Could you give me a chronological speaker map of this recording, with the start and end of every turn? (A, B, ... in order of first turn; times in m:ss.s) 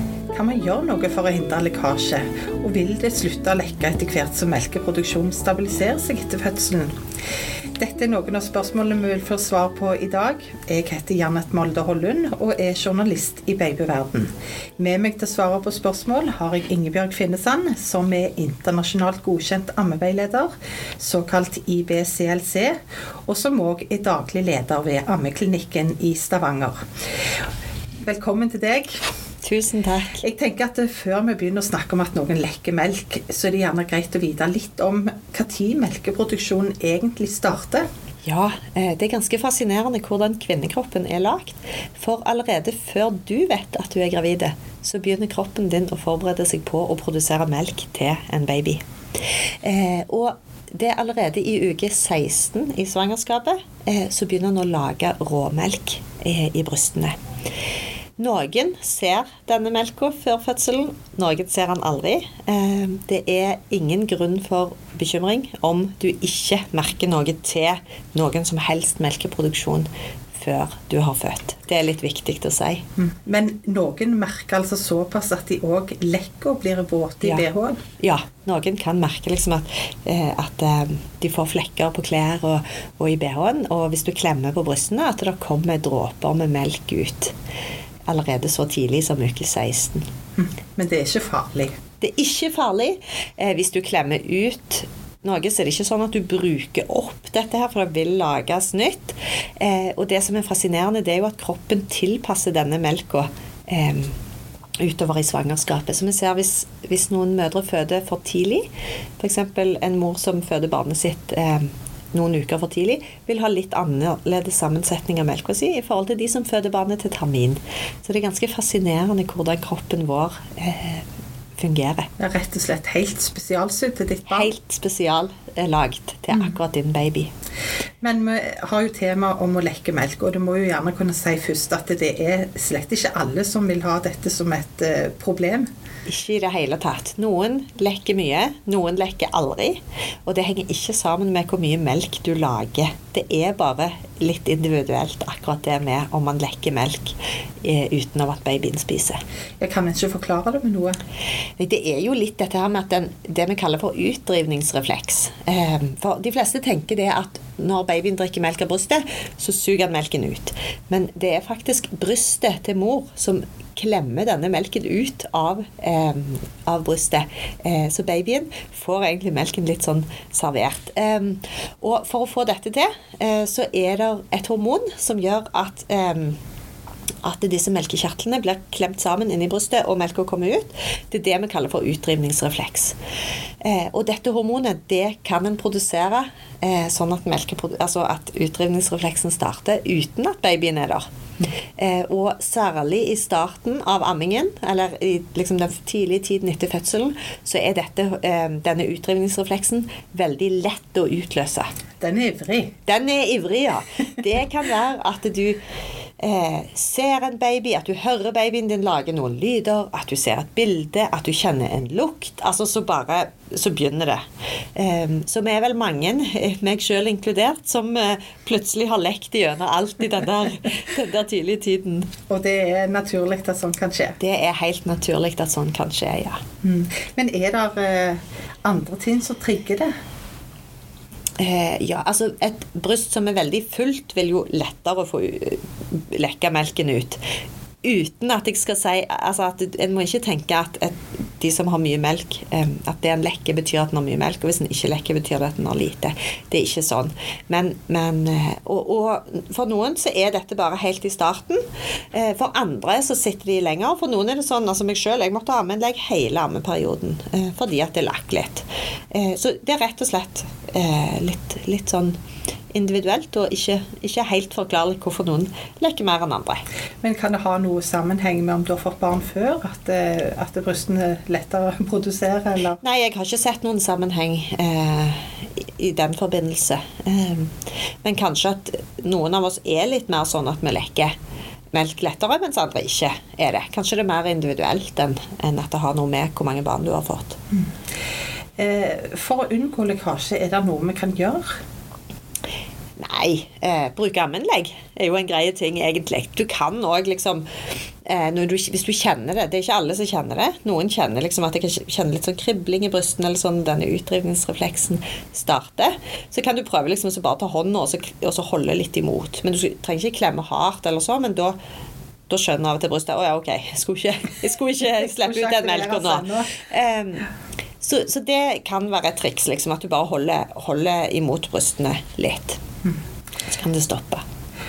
0:00.3-0:06.9 A
0:07.8-0:26.8 A
0:28.0-0:29.0 A
0:29.4-0:30.2 B
0:30.2-0:37.8 A
0:38.2-0:48.8 B
0:49.6-0:57.2 B
0:58.2-1:12.8 B
1:13.0-1:17.8 A
1:18.0-1:27.3 B
1:28.1-1:30.0 B
1:30.4-1:31.7 A
1:32.0-1:44.1 B
1:44.8-1:48.7 B
1:49.2-2:01.0 B
2:01.6-2:02.1 B
2:02.2-2:04.5 A
2:04.2-2:07.3 B
2:08.0-2:15.7 A
2:16.1-2:29.2 B
2:29.6-2:31.0 A
2:31.6-2:56.4 B
2:57.2-3:03.0 B
3:03.6-3:11.1 B
3:11.8-3:21.7 B
3:22.0-3:22.7 A
3:22.8-3:25.6 B
3:26.2-3:34.2 B
3:34.8-3:42.1 B
3:42.3-3:44.2 A
3:44.2-3:46.4 B
3:46.6-3:49.9 A
3:51.4-3:57.2 B
3:57.8-4:22.2 B
4:22.7-4:26.6 B
4:27.0-4:32.8 A
4:32.8-4:41.1 B
4:41.7-4:47.4 B
4:48.6-4:51.5 A
4:53.0-4:57.4 B
4:58.0-5:11.6 B
5:12.3-5:17.2 B
5:15.0-5:16.5 A
5:17.8-5:22.6 B
5:23.5-5:24.2 B